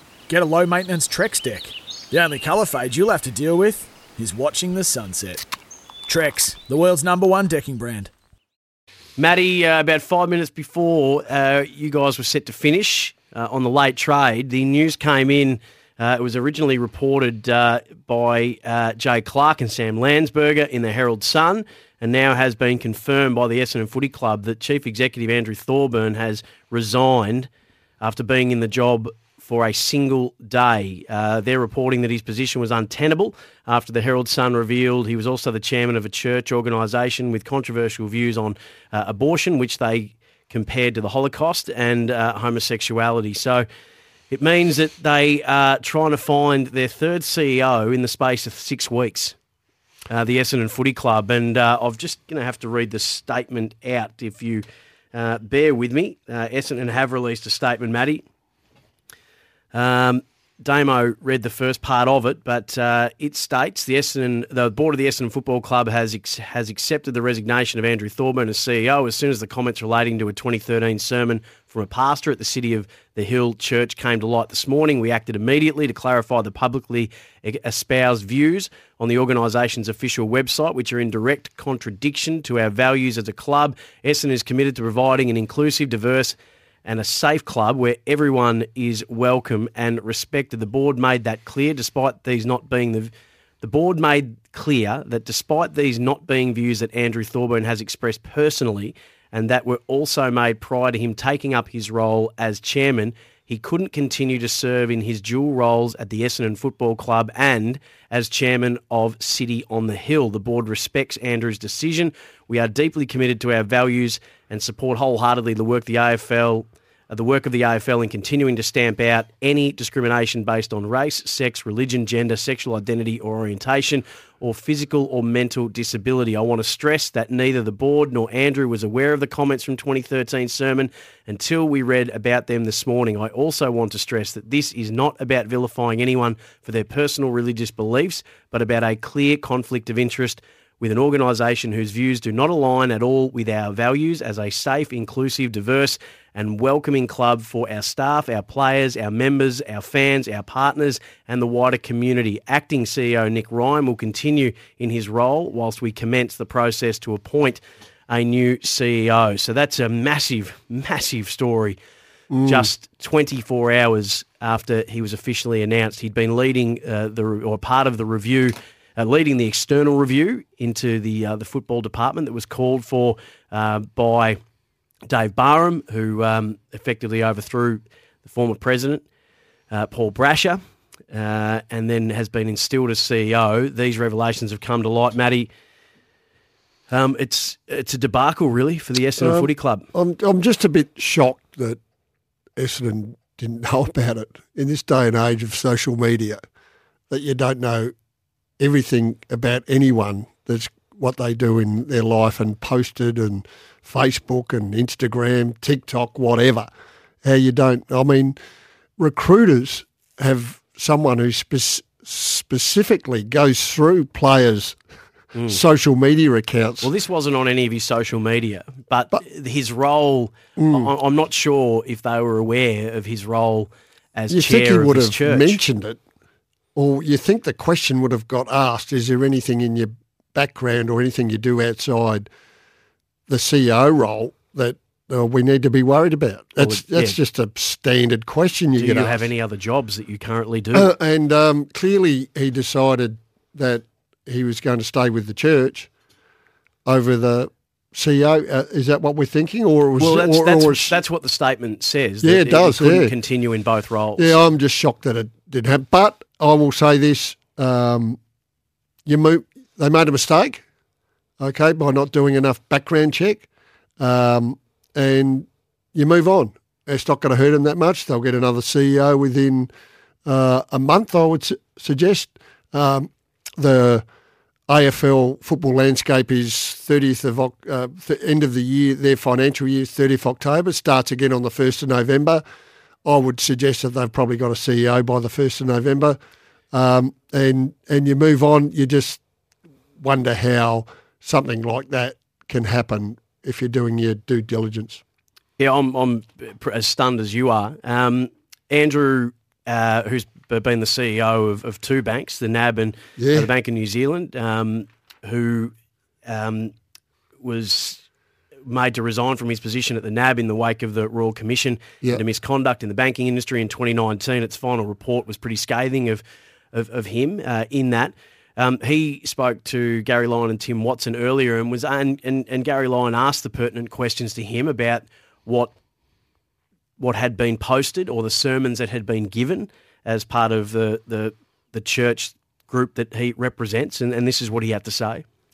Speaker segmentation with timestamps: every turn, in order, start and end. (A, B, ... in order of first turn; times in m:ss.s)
0:00.3-0:05.4 A
0:06.1-0:08.1 A
0:09.2-0:27.5 B
0:28.0-0:43.6 B
0:44.3-0:49.4 B
0:50.1-0:58.2 B
0:59.7-2:41.8 B
2:42.3-2:42.7 C
2:42.4-2:54.4 B
2:55.1-2:59.0 B
2:59.7-3:00.6 B
3:01.1-3:05.5 B
3:06.9-3:09.9 B
3:09.2-3:11.8 C
3:12.6-3:16.4 C
3:17.1-3:17.9 C
3:18.6-3:26.7 C
3:27.2-3:28.4 C
3:29.0-3:34.8 C
3:35.4-3:35.6 B
3:35.5-3:36.9 C
3:36.8-3:45.6 B
3:40.6-3:40.9 C
3:44.3-3:46.0 C
3:46.8-3:52.3 C
3:53.3-3:59.3 C
3:56.6-3:57.2 B
3:58.8-4:00.9 B
4:00.7-4:05.9 C
4:06.8-4:11.0 C
4:10.0-4:14.4 B
4:12.2-4:13.1 C
4:14.2-4:18.2 C
4:19.1-4:20.6 C
4:21.4-4:23.5 C
4:24.0-4:29.7 C
4:30.3-4:34.0 C
4:34.7-4:42.4 C
4:43.0-4:46.2 C
4:46.7-4:49.2 C
4:50.0-4:55.0 C
4:55.6-5:05.7 B
5:03.2-5:03.5 C
5:06.3-5:06.7 B
5:07.4-5:08.0 B
5:08.7-5:25.7 B
5:27.0-5:35.2 B